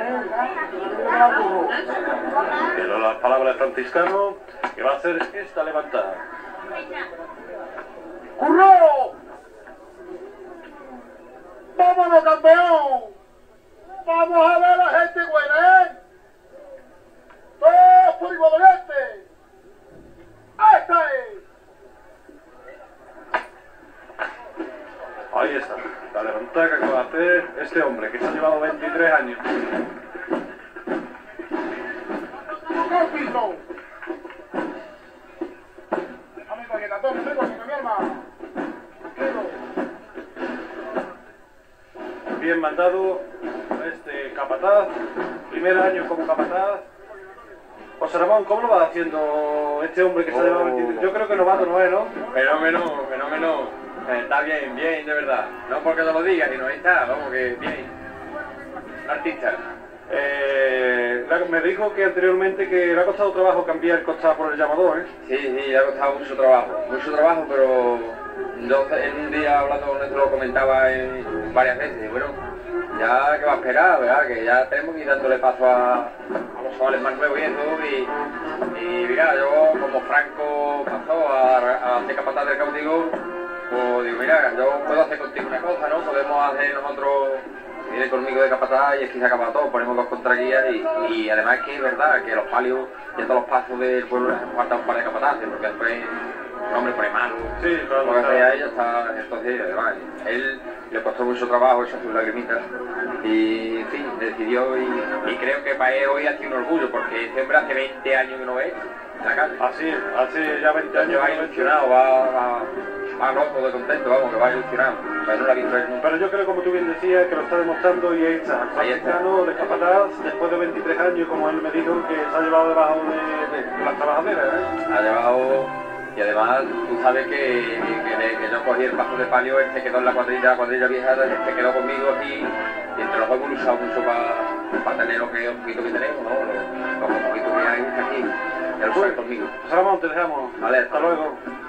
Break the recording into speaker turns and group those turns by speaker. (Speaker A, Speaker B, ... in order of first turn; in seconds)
Speaker A: 2.7-6.2, 25.3-29.4, 42.4-44.9, 45.5-46.8, 48.0-52.1, 60.1-65.1, 97.6-98.8, 109.6-111.9, 116.0-124.7, 138.9-141.4
Speaker B: 11.8-12.2, 14.2-15.8, 17.6-19.1, 20.9-21.2
Speaker C: 50.3-51.1, 52.3-57.9, 59.1-59.6, 65.2-72.4, 72.9-78.1, 78.7-83.2, 83.7-102.6, 103.2-109.6, 110.9-116.1, 118.8-119.2, 124.9-139.5, 140.6-141.2